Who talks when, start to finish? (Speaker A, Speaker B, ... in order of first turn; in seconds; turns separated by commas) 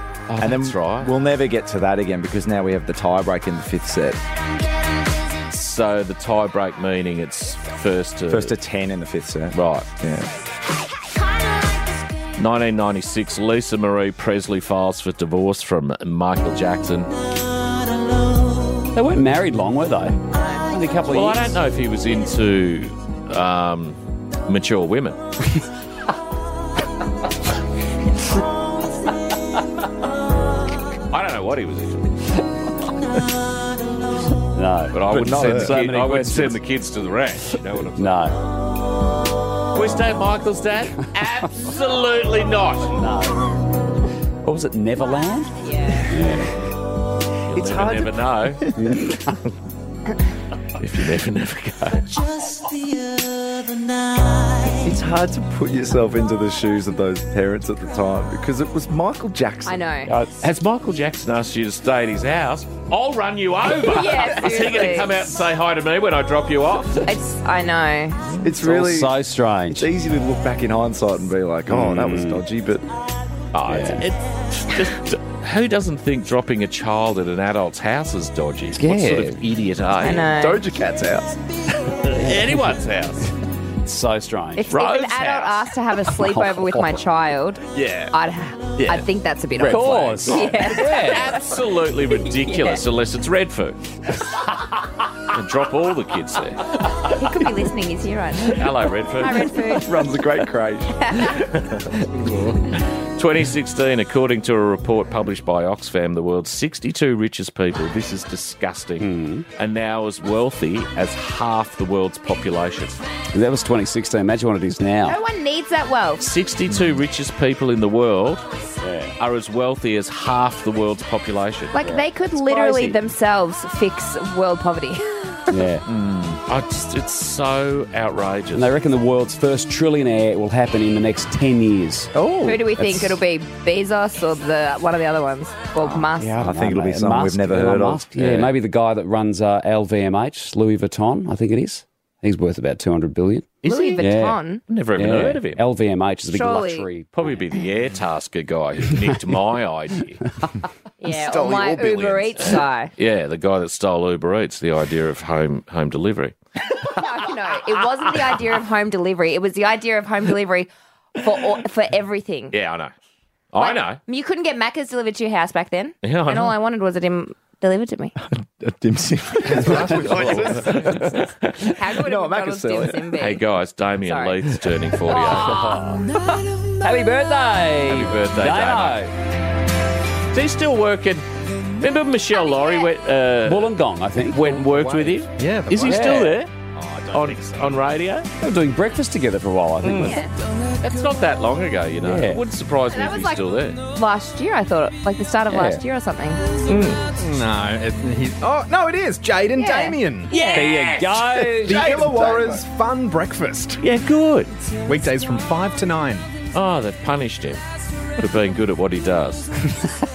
Speaker A: 0.3-1.1, Speaker B: 0.4-4.2, Speaker A: 5.4-8.5, Speaker B: 8.3-10.4, Speaker A: 9.5-9.9, Speaker A: 12.3-17.1, Speaker C: 18.9-21.6, Speaker D: 20.4-20.6, Speaker A: 21.1-25.2, Speaker A: 31.1-32.1, Speaker C: 34.5-36.6, Speaker A: 34.9-38.2, Speaker B: 35.1-35.9, Speaker C: 38.0-38.4, Speaker A: 39.7-43.0, Speaker C: 43.0-43.6, Speaker C: 44.4-46.6, Speaker D: 45.6-46.1, Speaker A: 47.5-48.6, Speaker B: 47.5-48.9, Speaker C: 48.8-49.2, Speaker A: 50.8-52.2, Speaker B: 54.8-59.8, Speaker D: 59.6-60.1, Speaker C: 60.1-60.4, Speaker A: 60.4-67.1, Speaker D: 63.8-65.2, Speaker D: 67.0-68.2, Speaker B: 68.4-69.1, Speaker C: 68.6-69.9, Speaker B: 69.7-72.9, Speaker C: 71.7-72.4, Speaker A: 73.5-80.3, Speaker C: 73.7-74.0, Speaker C: 78.8-79.4, Speaker D: 80.0-80.6, Speaker B: 80.2-81.4, Speaker A: 82.1-83.3, Speaker C: 82.2-82.6, Speaker C: 83.8-84.7, Speaker D: 84.6-91.2, Speaker A: 84.7-85.6, Speaker C: 86.1-87.0, Speaker A: 87.8-88.1, Speaker C: 89.6-91.3, Speaker A: 90.3-93.8, Speaker D: 92.3-92.8, Speaker A: 95.3-96.6, Speaker D: 97.1-98.6, Speaker A: 98.5-99.5, Speaker D: 99.2-99.9, Speaker B: 99.7-101.5, Speaker D: 101.0-101.3, Speaker A: 103.2-113.0, Speaker C: 109.0-109.5, Speaker C: 113.3-115.2, Speaker D: 115.0-116.2, Speaker A: 116.2-118.4, Speaker C: 118.8-119.1, Speaker A: 119.2-121.8, Speaker D: 121.7-125.5, Speaker C: 121.8-123.0, Speaker C: 125.5-125.8, Speaker A: 125.9-128.7, Speaker C: 128.5-132.1, Speaker B: 132.1-133.1, Speaker D: 132.4-136.4, Speaker B: 136.2-138.1, Speaker C: 136.3-144.4, Speaker A: 138.2-138.5, Speaker A: 143.6-145.6, Speaker D: 143.6-144.6, Speaker C: 144.9-147.3, Speaker D: 146.3-146.9, Speaker A: 147.1-150.2, Speaker D: 151.0-152.9, Speaker B: 151.3-152.3, Speaker A: 153.0-156.3, Speaker D: 156.9-162.5, Speaker A: 162.5-162.9, Speaker A: 163.5-164.0, Speaker D: 163.6-168.2, Speaker A: 166.0-166.6, Speaker B: 168.3-171.3, Speaker A: 169.7-171.6, Speaker E: 169.9-170.3, Speaker D: 171.7-173.4, Speaker B: 171.8-173.1, Speaker A: 173.2-175.7, Speaker D: 174.0-174.3, Speaker D: 175.1-176.4, Speaker C: 175.1-176.0, Speaker C: 176.8-179.1, Speaker A: 177.9-179.0, Speaker A: 180.3-181.2, Speaker A: 181.8-186.5, Speaker D: 182.3-182.9, Speaker C: 183.4-185.2, Speaker E: 185.4-186.1, Speaker C: 185.8-186.4, Speaker E: 186.9-187.5, Speaker A: 187.1-188.3, Speaker C: 188.4-190.3, Speaker D: 189.9-190.3, Speaker A: 190.8-193.8, Speaker C: 192.0-192.4, Speaker D: 192.9-196.4, Speaker C: 195.5-195.8, Speaker A: 196.7-197.0, Speaker E: 197.1-203.8, Speaker D: 199.6-201.0, Speaker C: 200.4-201.9, Speaker A: 200.4-201.0, Speaker B: 201.6-202.6, Speaker A: 203.8-204.5, Speaker E: 204.9-206.3, Speaker A: 206.5-207.6, Speaker A: 208.2-209.5